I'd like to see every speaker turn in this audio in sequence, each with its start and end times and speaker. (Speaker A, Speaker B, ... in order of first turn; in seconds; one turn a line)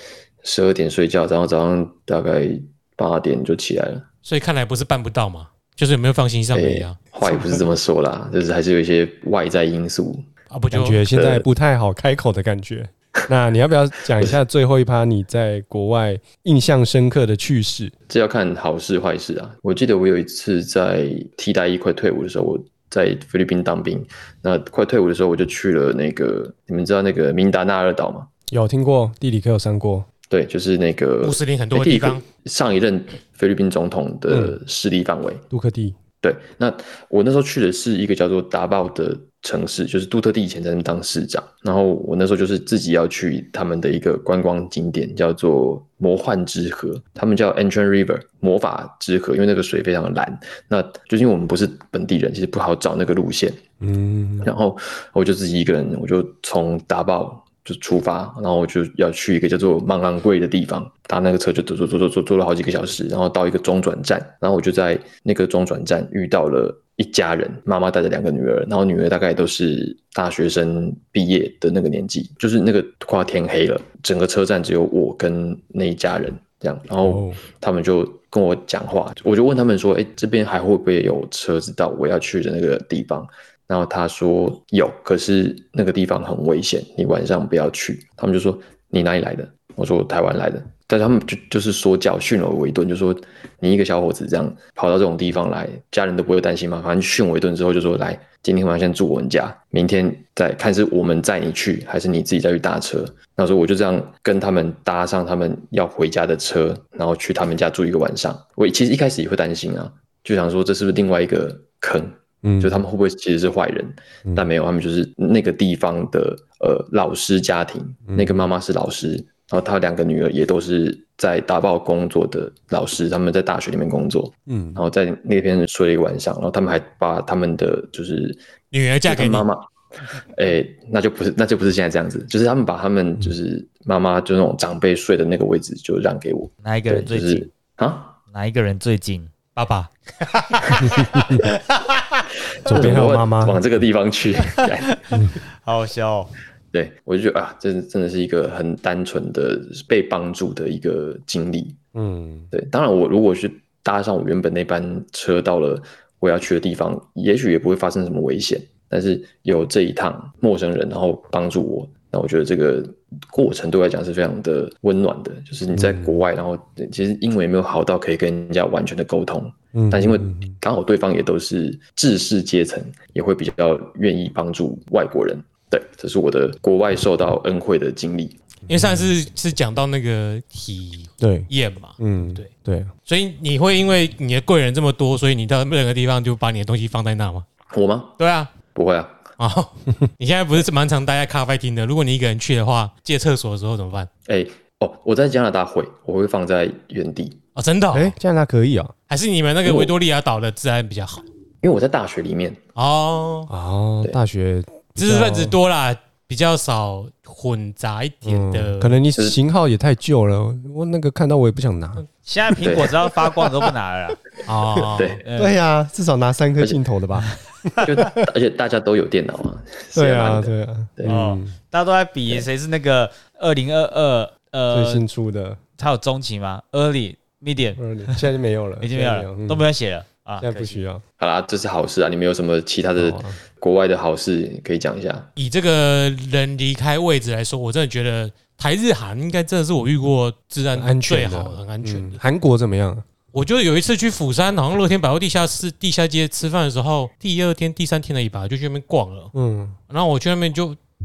Speaker A: 0.4-4.1
Speaker B: 4.2-7.0
Speaker A: 6.5-10.3
Speaker B: 10.5-11.0
Speaker C: 10.7-17.9
Speaker A: 11.1-11.5
Speaker A: 18.1-28.3
Speaker C: 28.5-30.1
Speaker A: 30.3-35.4
Speaker B: 31.2-32.2
Speaker C: 34.3-34.6
Speaker C: 35.5-36.0
Speaker A: 36.2-53.6
Speaker C: 53.8-54.5
Speaker A: 54.4-128.4
Speaker C: 77.0-77.4
Speaker C: 112.4-112.8
Speaker C: 118.1-118.5
Speaker C: 124.5-124.8
Speaker B: 128.7-129.5
Speaker A: 129.1-129.7
Speaker A: 130.3-138.2
Speaker D: 136.6-137.5
Speaker D: 138.3-139.3
Speaker B: 139.6-139.9
Speaker D: 140.2-142.3
Speaker A: 140.8-141.4
Speaker C: 141.0-141.4
Speaker A: 142.6-145.3
Speaker C: 142.7-143.6
Speaker D: 144.4-146.3
Speaker A: 146.7-151.8
Speaker C: 151.9-152.5
Speaker A: 152.5-178.4
Speaker C: 165.7-166.2
Speaker C: 169.7-170.6
Speaker C: 178.7-179.1
Speaker B: 178.7-182.5
Speaker C: 181.2-182.9
Speaker B: 183.1-187.5
Speaker A: 187.7-188.2
Speaker B: 188.2-188.5
Speaker A: 188.7-189.2
Speaker B: 189.4-194.1
Speaker A: 194.3-197.4
Speaker B: 197.6-198.2
Speaker C: 197.9-198.9
Speaker B: 199.1-201.2
Speaker A: 199.6-199.9
Speaker A: 201.6-202.6
Speaker B: 202.8-203.5
Speaker C: 203.5-205.6
Speaker B: 205.0-209.0
Speaker C: 208.2-212.1
Speaker A: 209.1-209.4
Speaker D: 212.2-214.2
Speaker A: 212.6-212.9
Speaker B: 214.5-215.2
Speaker C: 214.8-218.3
Speaker A: 214.9-215.2
Speaker D: 215.2-215.6
Speaker A: 217.8-221.2
Speaker C: 219.9-221.6
Speaker D: 221.1-225.1
Speaker C: 224.7-225.6
Speaker D: 225.8-228.3
Speaker C: 227.8-229.7
Speaker D: 228.8-230.8
Speaker C: 230.4-231.0
Speaker A: 231.2-235.3
Speaker C: 233.0-233.4
Speaker B: 235.4-242.2
Speaker C: 240.8-243.1
Speaker B: 243.3-249.3
Speaker C: 249.3-249.8
Speaker B: 249.9-250.8